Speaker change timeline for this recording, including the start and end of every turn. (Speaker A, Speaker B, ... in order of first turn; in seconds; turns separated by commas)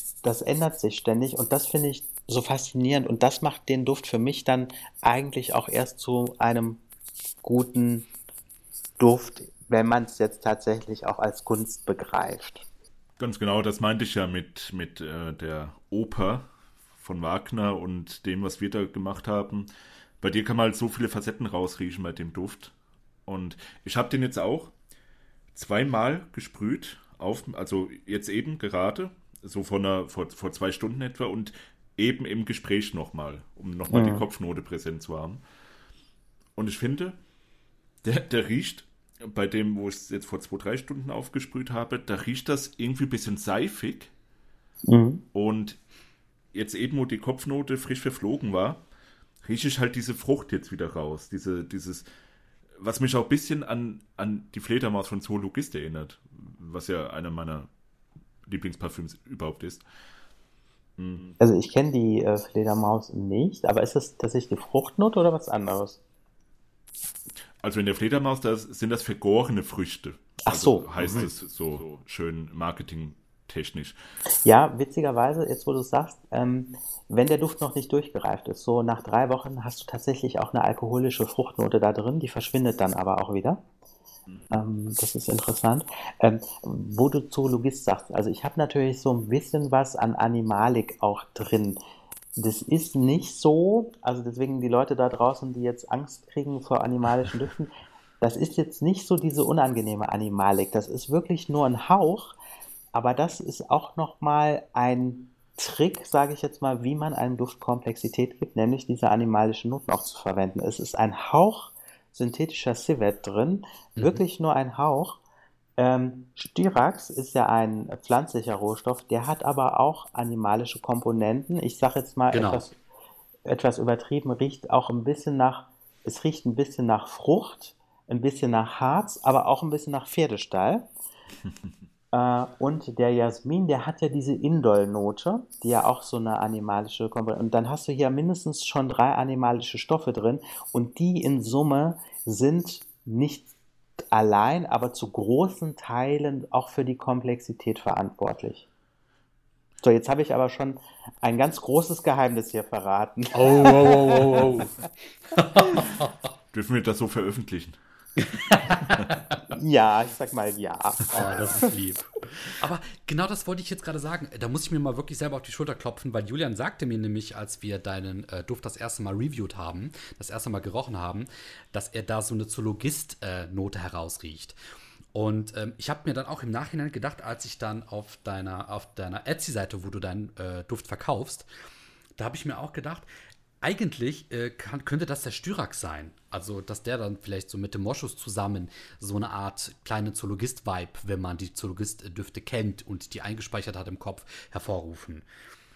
Speaker A: 0.2-6.8, Speaker A: 7.4-8.1, Speaker A: 9.0-12.6, Speaker B: 13.2-16.5, Speaker B: 17.0-19.7, Speaker B: 20.2-22.7, Speaker B: 23.3-24.7, Speaker B: 25.5-35.4, Speaker A: 33.9-34.2, Speaker B: 36.5-37.2, Speaker B: 38.0-44.1, Speaker A: 44.9-45.2, Speaker B: 45.3-45.8, Speaker B: 46.5-48.8, Speaker B: 49.4-52.0, Speaker B: 52.8-57.7, Speaker B: 58.5-59.8, Speaker B: 61.0-61.4, Speaker A: 61.4-66.0, Speaker B: 67.6-73.9, Speaker A: 70.5-71.2, Speaker A: 74.4-83.6, Speaker A: 84.5-91.8, Speaker A: 92.3-102.4, Speaker A: 102.9-115.2, Speaker A: 115.8-122.8, Speaker C: 122.3-122.7, Speaker A: 123.5-130.9, Speaker A: 132.1-143.5, Speaker A: 144.1-148.6, Speaker A: 149.8-154.6, Speaker C: 153.3-154.8, Speaker C: 155.3-156.2, Speaker B: 156.5-157.8, Speaker C: 158.2-159.4, Speaker A: 159.5-161.7, Speaker C: 161.1-174.5, Speaker C: 175.1-181.5, Speaker C: 182.2-183.1, Speaker C: 183.6-195.2